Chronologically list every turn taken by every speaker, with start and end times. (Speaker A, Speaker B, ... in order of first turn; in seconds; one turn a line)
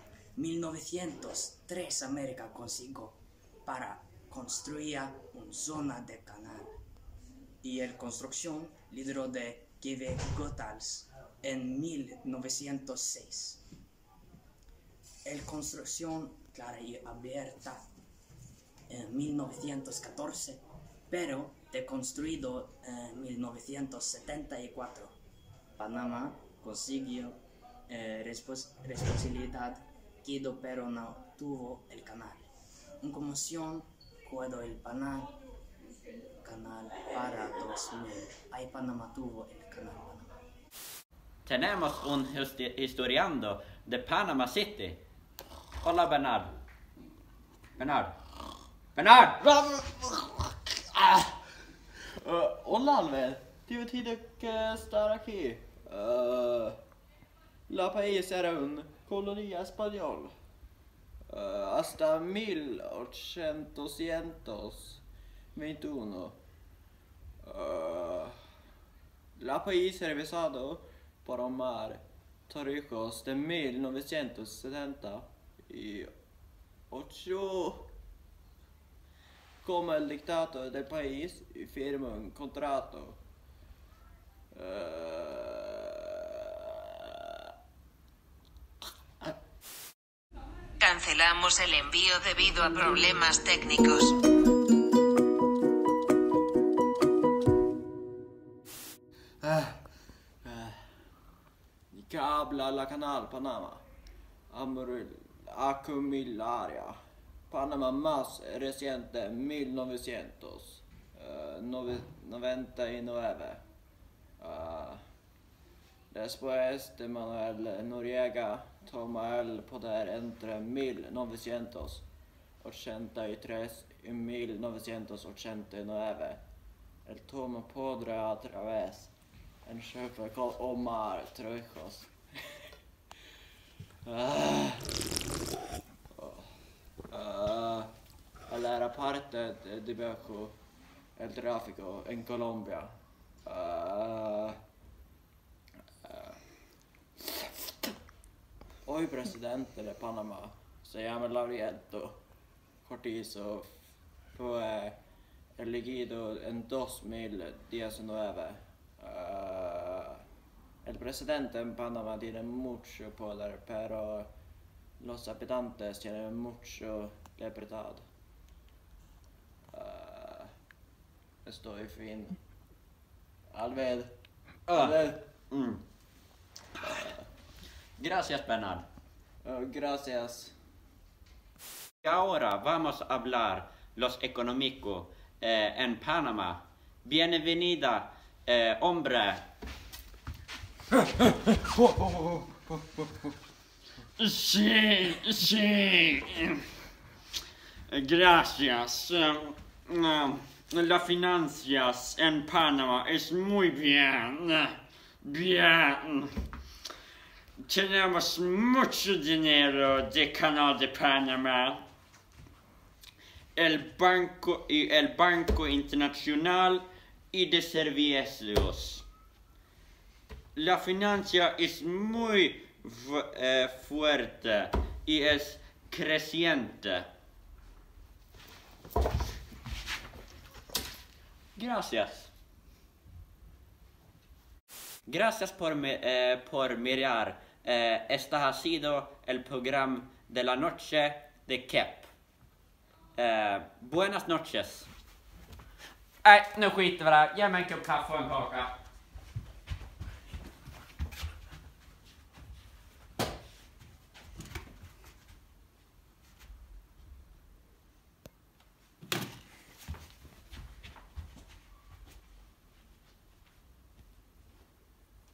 Speaker A: 0.3-6.8
Speaker A: 7.6-13.6
Speaker A: 15.2-17.8
Speaker A: 18.9-25.1
Speaker A: 25.8-32.5
Speaker A: 33.0-35.3
Speaker A: 36.4-40.3
Speaker B: 41.4-45.0
Speaker B: 45.8-46.5
Speaker B: 47.8-48.1
Speaker B: 48.9-49.4
Speaker C: 49.4-51.4
Speaker C: 52.2-56.8
Speaker C: 57.7-60.3
Speaker C: 61.3-65.0
Speaker C: 65.5-66.4
Speaker C: 67.4-68.3
Speaker C: 69.4-76.1
Speaker C: 76.9-77.8
Speaker C: 79.6-83.2
Speaker C: 84.5-87.5
Speaker D: 90.8-94.2
Speaker C: 99.4-99.8
Speaker C: 100.4-100.9
Speaker C: 101.9-103.8
Speaker C: 104.5-107.0
Speaker C: 107.5-113.6
Speaker C: 114.4-115.0
Speaker C: 116.1-122.0
Speaker C: 122.6-126.4
Speaker C: 127.0-129.1
Speaker C: 129.7-132.1
Speaker C: 134.1-134.9
Speaker C: 136.1-136.5
Speaker C: 137.1-137.9
Speaker C: 138.5-140.6
Speaker C: 141.2-142.9
Speaker C: 143.4-144.6
Speaker C: 146.0-146.4
Speaker C: 147.2-147.5
Speaker C: 148.8-152.2
Speaker C: 152.8-153.7
Speaker C: 154.3-154.9
Speaker C: 155.6-160.2
Speaker C: 160.8-164.3
Speaker C: 165.0-168.1
Speaker C: 169.7-170.5
Speaker C: 171.4-172.4
Speaker C: 173.5-174.1
Speaker B: 174.7-175.0
Speaker C: 174.7-175.2
Speaker B: 175.5-175.8
Speaker B: 176.8-177.1
Speaker B: 178.0-178.8
Speaker C: 179.4-180.5
Speaker B: 182.0-189.4
Speaker B: 194.2-196.6
Speaker B: 197.9-206.3
Speaker B: 207.6-211.8
Speaker B: 213.6-219.0
Speaker B: 220.5-227.0
Speaker B: 231.6-232.3
Speaker B: 235.1-242.1
Speaker B: 243.2-244.9
Speaker B: 246.2-248.7